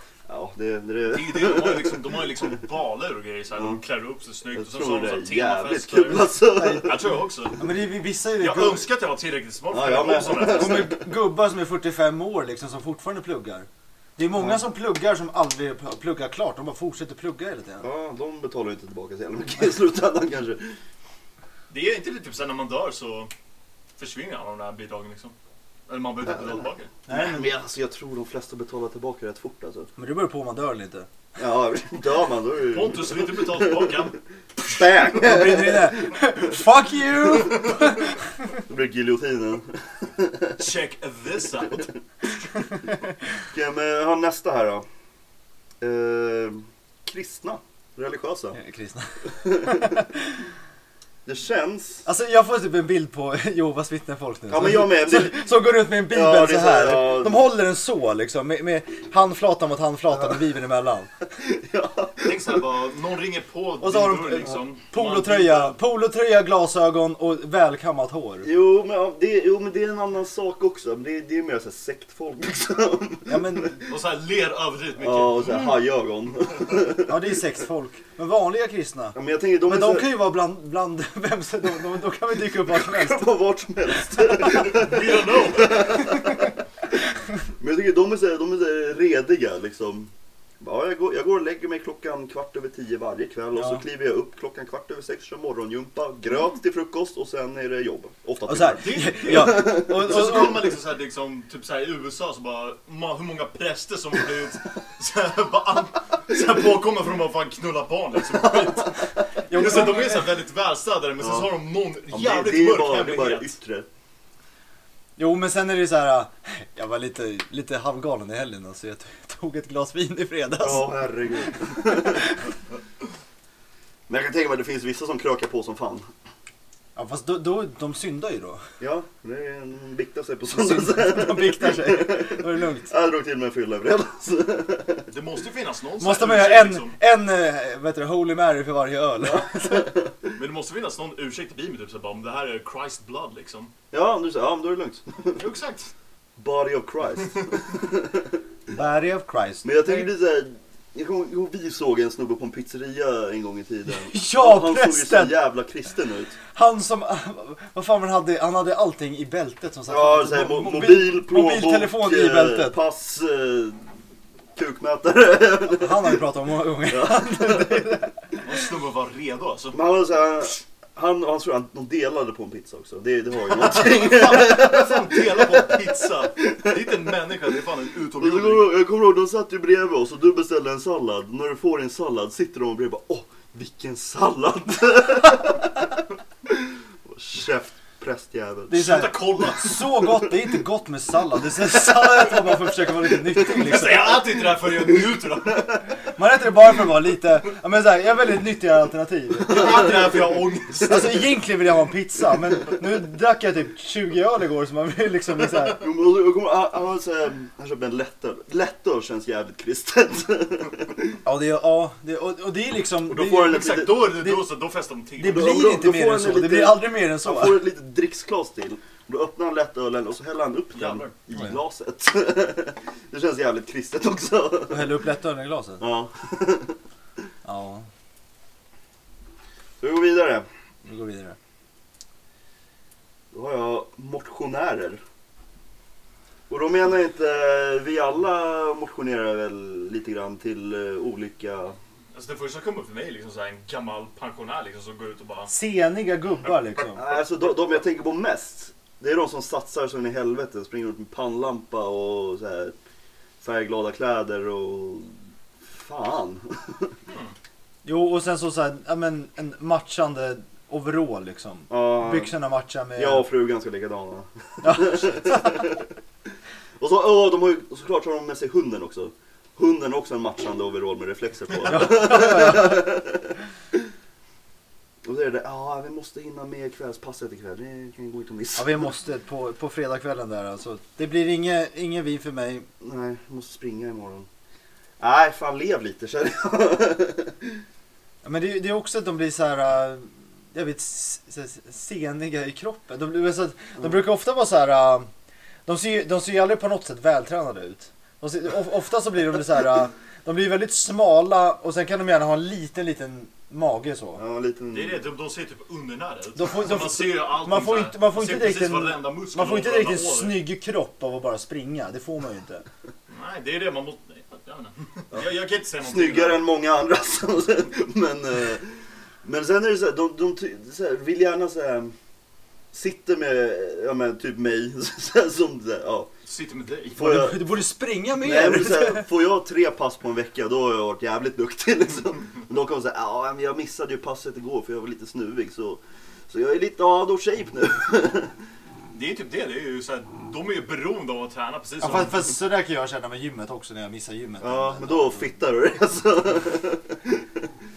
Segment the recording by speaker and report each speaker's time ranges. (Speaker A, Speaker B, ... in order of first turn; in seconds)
Speaker A: 0.3-2.0, 4.5-7.1, 9.7-11.0, 17.8-20.8, 27.1-29.9, 31.4-34.0, 34.6-36.1, 38.7-40.6, 43.5-44.9, 45.8-48.6, 49.5-49.8, 51.2-52.1, 54.5-55.5, 56.0-57.5, 61.4-62.6, 68.4-73.7, 75.0-77.1, 79.2-80.2, 82.6-86.5, 87.6-90.1, 90.6-100.5, 108.5-108.7, 111.2-111.5, 112.1-113.9, 120.6-122.3, 124.1-126.1, 128.8-135.1, 139.2-140.3, 143.9-145.4, 146.4-148.4, 149.6-156.4, 159.9-163.8, 164.6-166.2, 166.9-167.9, 169.7-175.9, 176.5-176.8, 178.2-185.9, 186.5-188.9, 199.7-200.2, 205.7-211.2, 213.1-214.2, 215.3-224.9, 225.8-226.8, 229.8-230.5, 233.3-235.0, 236.5-241.8, 247.0-252.8, 253.4-256.9, 261.7-262.3, 263.0-265.9, 266.8-273.8, 275.0-278.9, 282.8-284.3, 285.0-287.6, 304.2-305.0, 315.8-318.7, 319.2-321.9, 322.7-326.1, 326.9-327.6, 328.2-338.3, 344.4-347.5
Speaker B: 1.1-7.6, 8.4-10.9, 21.7-23.3, 24.0-25.4, 25.9-26.9, 32.7-34.2, 40.6-41.8, 62.2-65.8, 73.9-75.8, 84.3-86.0, 98.8-113.5, 135.1-137.0, 140.3-143.7, 145.3-145.9, 168.4-169.8, 173.5-178.7, 188.7-189.9, 193.4-195.8, 199.5-201.3, 213.3-215.6, 220.7-221.2, 242.1-245.5, 257.1-257.3, 304.7-310.4, 313.1-316.4, 326.2-327.0, 338.9-342.3
Speaker C: 6.6-6.9, 7.6-8.9, 10.5-17.9, 27.1-27.5, 30.0-31.1, 35.1-38.1, 48.5-50.4, 52.1-61.1, 63.8-68.5, 73.3-73.8, 77.1-83.3, 93.5-93.8, 98.5-100.7, 109.5-110.3, 115.2-121.0, 121.9-122.3, 127.0-128.6, 130.5-132.9, 136.0-139.9, 148.7-150.1, 153.9-155.4, 156.5-162.8, 165.7-168.1, 188.7-194.2, 196.2-199.9, 200.9-205.8, 211.2-213.6, 215.2-217.6, 224.7-225.8, 227.4-227.9, 230.8-231.4, 245.5-247.0, 257.9-263.2, 264.6-265.6, 271.7-272.9, 278.6-282.7, 288.2-295.1, 295.7-304.2, 306.4-312.6, 327.0-329.1, 341.8-345.3